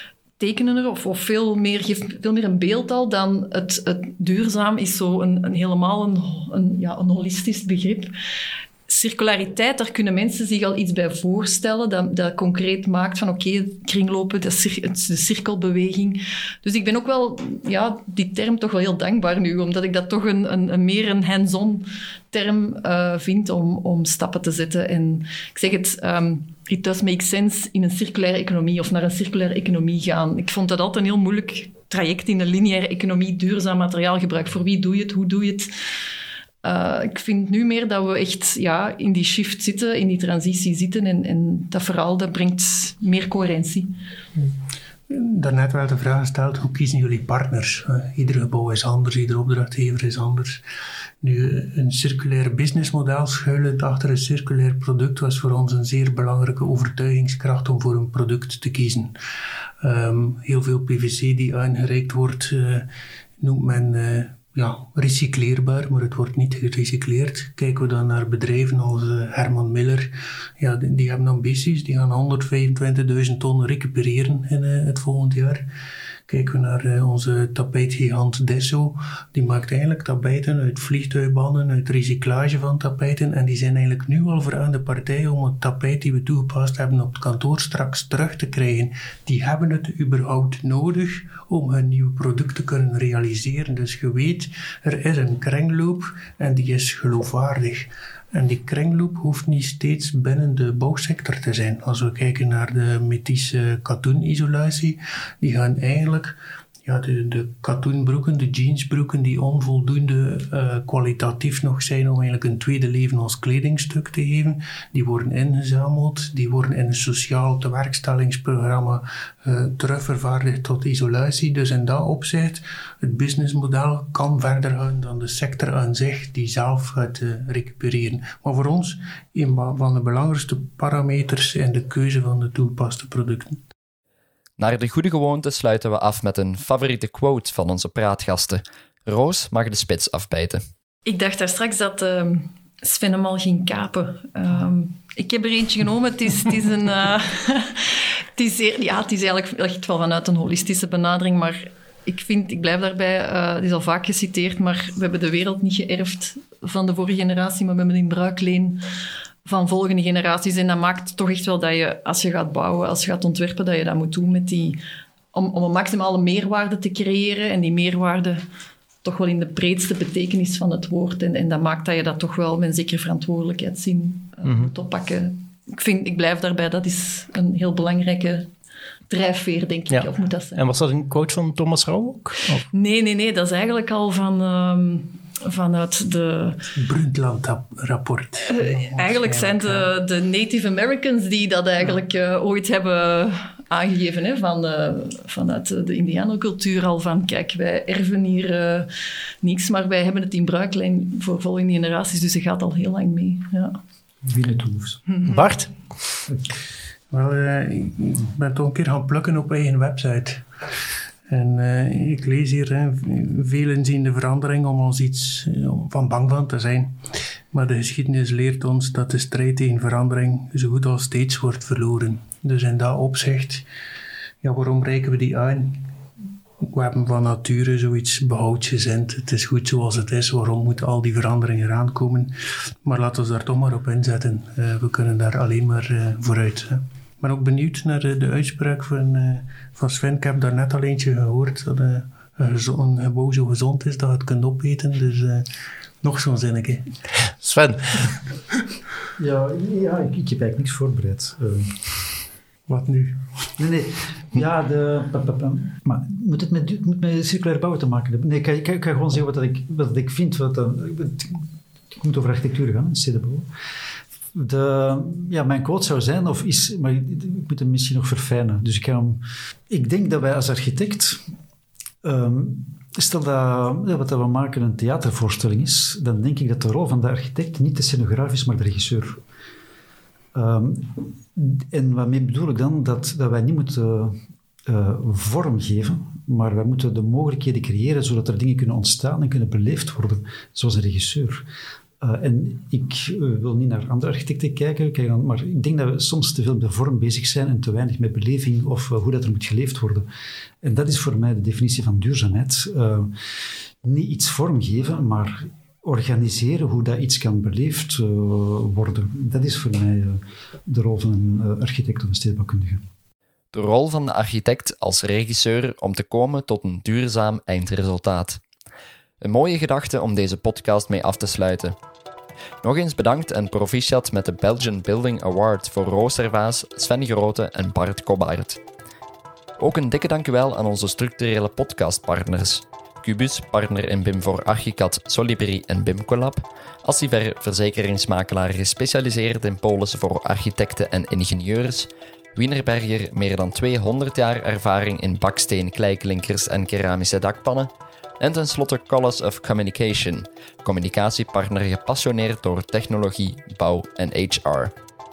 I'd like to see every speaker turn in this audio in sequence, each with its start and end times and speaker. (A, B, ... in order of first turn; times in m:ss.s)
0:00.4-0:08.1 A
0:08.9-0:35.7 A
0:36.6-0:43.9 A
0:45.1-0:50.6 B
0:51.2-0:59.1 B
0:59.8-1:02.9 B
1:03.4-1:15.6 B
1:16.3-2:13.6 B
2:14.6-2:20.6 C
2:21.1-2:38.8 A
2:39.4-2:44.8 A
2:45.3-2:48.4 A
2:49.0-2:58.5 A
2:54.4-2:54.7 D
2:59.1-3:00.6 A
2:59.9-3:02.7 D
3:02.7-3:06.6 A
3:06.8-3:09.9 B
3:08.5-3:18.9 A
3:19.4-3:23.8 A
3:24.2-3:25.0 E
3:25.2-3:25.7 D
3:27.1-3:30.5 B
3:31.3-3:37.0 B
3:37.5-3:43.6 B
3:44.4-3:45.9 B
3:46.6-4:05.5 B
4:06.0-4:06.9 B
4:07.4-4:08.2 D
4:09.2-4:12.0 E
4:12.7-4:13.2 B
4:13.6-4:23.5 E
4:24.3-4:31.2 E
4:32.0-4:39.2 E
4:40.3-4:51.4 E
4:52.0-5:00.1 E
5:00.6-5:03.1 E
5:03.8-5:12.8 E
5:13.5-5:18.4 C
5:19.2-5:21.8 C
5:22.6-5:28.6 C
5:29.6-5:54.7 C